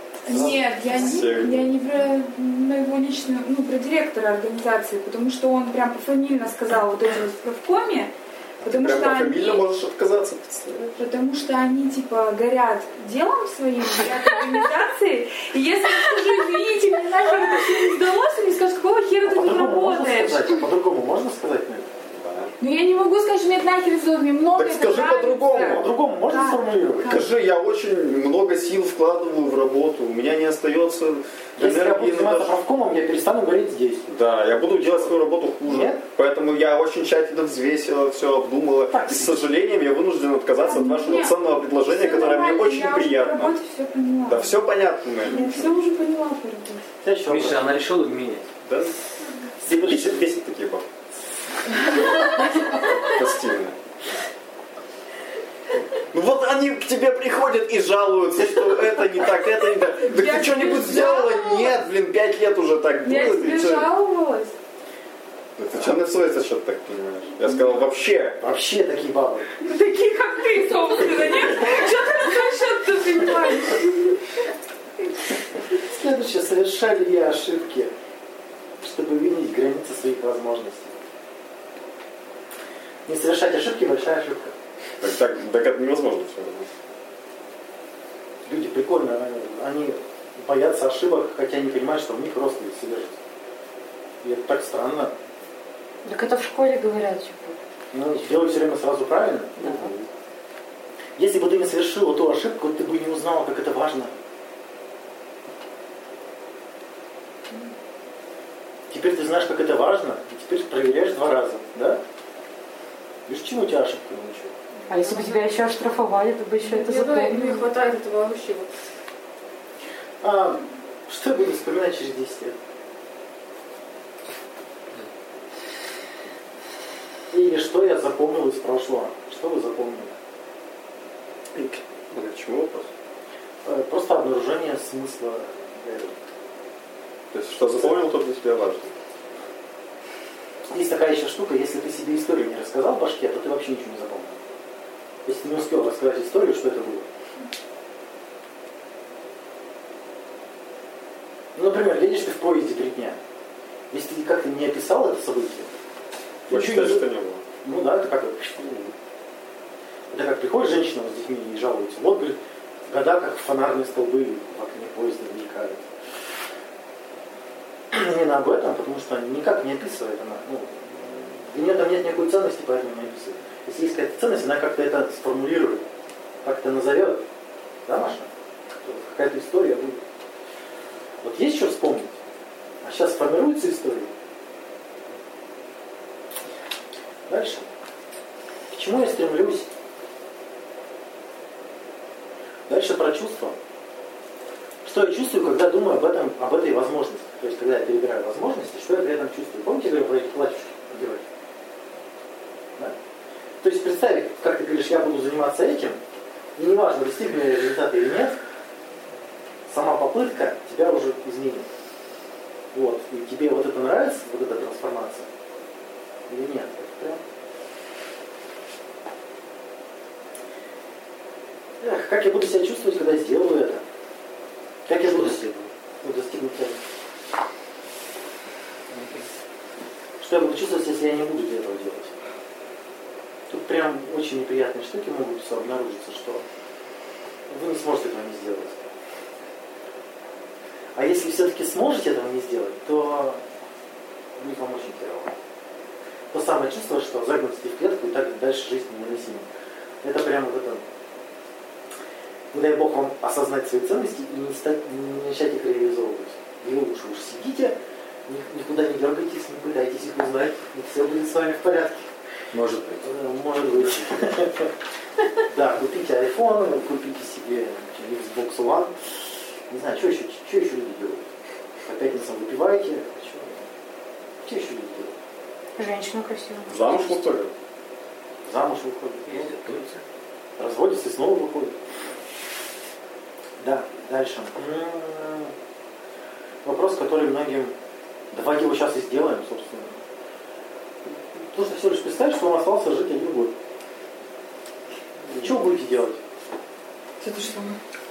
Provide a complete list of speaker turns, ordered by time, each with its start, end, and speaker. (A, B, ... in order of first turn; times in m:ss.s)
0:00.2-0:09.7 A
0:00.3-0:00.6 B
0:00.9-0:01.8 C
0:08.6-0:11.0 C
0:11.0-0:20.7 A
0:19.2-0:21.9 B
0:22.1-0:22.5 C
0:22.6-0:27.2 A
0:24.6-0:25.9 C
0:25.8-0:27.2 B
0:27.0-0:32.6 C
0:31.6-0:34.1 B
0:34.1-0:43.6 C
0:35.6-0:36.0 B
0:38.9-0:39.4 B
0:40.6-0:44.6 A
0:44.2-0:45.7 C
0:45.2-0:46.8 A
0:47.0-0:47.9 B
0:47.3-0:48.5 D
0:48.6-0:49.0 C
0:49.6-0:50.3 B
0:49.6-0:50.9 C
0:52.0-0:53.8 C
0:56.1-1:03.9 C
0:59.9-1:01.8 A
1:03.0-1:04.5 A
1:05.6-1:08.4 C
1:08.4-1:09.5 B
1:09.6-1:14.1 A
1:15.8-1:17.9 B
1:18.8-1:20.9 B
1:23.1-1:24.5 B
1:25.0-1:26.7 C
1:28.5-1:33.2 B
1:34.2-1:35.1 B
1:36.0-1:37.6 E
1:37.9-1:39.7 B
1:39.6-1:39.9 E
1:39.6-1:40.1 C
1:41.2-1:44.2 B
1:48.9-1:52.0 B
1:53.3-1:54.5 B
1:54.9-1:57.7 E
1:54.9-1:55.5 F
1:56.6-1:58.7 F
2:00.2-2:02.6 B
2:07.3-2:10.2 B
2:11.6-2:12.9 C
2:13.6-2:16.2 B
2:17.3-2:19.0 C
2:20.6-2:24.4 B
2:25.3-2:27.1 B
2:31.6-2:33.2 B
2:33.9-2:35.7 B
2:36.5-2:37.1 B
2:36.5-2:37.4 C
2:37.6-2:38.7 B
2:38.6-2:38.9 C
2:40.1-2:45.8 B
2:47.9-2:55.8 B
2:56.4-2:57.2 B
2:57.9-2:58.3 B
2:58.8-3:00.0 B
3:01.2-3:02.2 B
3:02.8-3:04.1 B
3:07.3-3:07.7 B
3:08.7-3:09.7 B
3:12.7-3:13.6 B
3:14.8-3:21.2 B
3:23.6-3:26.0 B
3:26.6-3:28.4 B
3:29.7-3:31.7 B
3:32.7-3:35.3 B
3:36.3-3:37.2 B
3:41.8-3:43.8 B
3:44.9-3:45.5 B
3:45.0-3:45.7 D
3:46.0-3:46.8 B
3:50.2-3:52.1 B
3:53.5-3:56.4 B
3:57.5-3:58.8 B
4:01.0-4:03.4 B
4:04.4-4:05.3 B
4:06.3-4:09.5 B
4:10.0-4:10.8 B
4:12.5-4:22.0 B
4:22.5-4:23.1 C
4:23.0-4:24.7 B
4:25.4-4:29.0 B
4:29.7-4:31.3 B
4:31.8-4:33.7 B
4:34.4-4:35.1 B
4:35.8-4:37.2 E
4:36.7-4:37.5 C
4:38.4-4:39.5 B
4:39.3-4:40.0 D
4:40.6-4:41.8 B
4:43.6-4:45.5 B
4:46.6-4:47.8 B
4:48.3-4:50.0 B
4:51.1-4:53.5 B
4:55.3-4:56.2 B
4:57.2-4:57.8 A